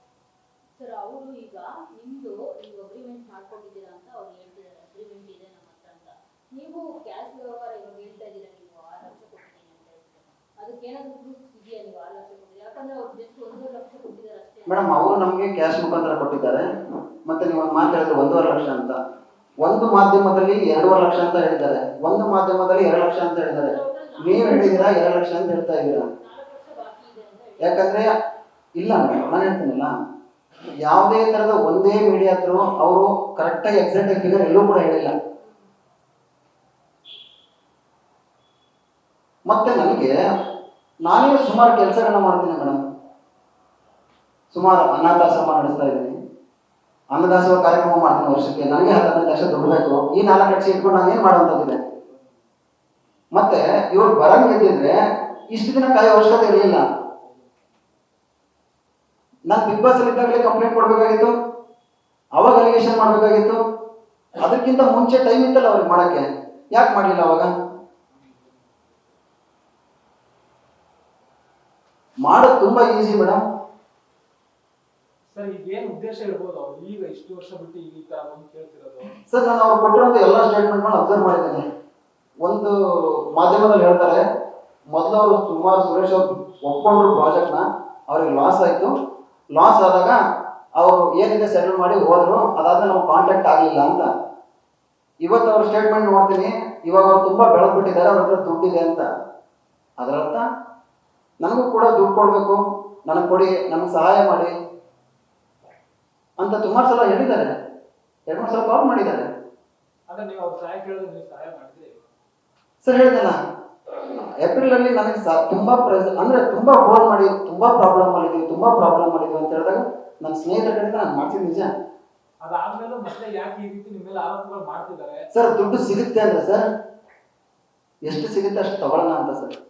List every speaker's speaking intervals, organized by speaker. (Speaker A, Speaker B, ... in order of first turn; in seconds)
Speaker A: 0.8-14.9, 23.6-28.0, 35.4-35.7
Speaker B: 14.7-16.6, 17.3-19.0, 19.6-26.1, 27.6-28.1, 28.8-29.9, 30.8-35.1, 39.5-40.1, 41.0-42.8, 44.5-46.1, 47.1-51.8, 53.3-55.0, 55.5-56.8, 59.5-61.3, 62.4-63.6, 64.3-67.5, 72.2-73.4, 79.3-81.6, 82.4-84.2, 84.9-88.9, 89.5-90.2, 90.8-94.1, 95.2-99.0, 100.0-100.4, 101.4-104.5, 106.4-107.5, 108.3-109.2, 112.8-113.4, 114.0-121.7, 125.3-126.7, 128.0-129.6
Speaker C: 75.3-79.1, 110.1-112.0, 122.4-125.2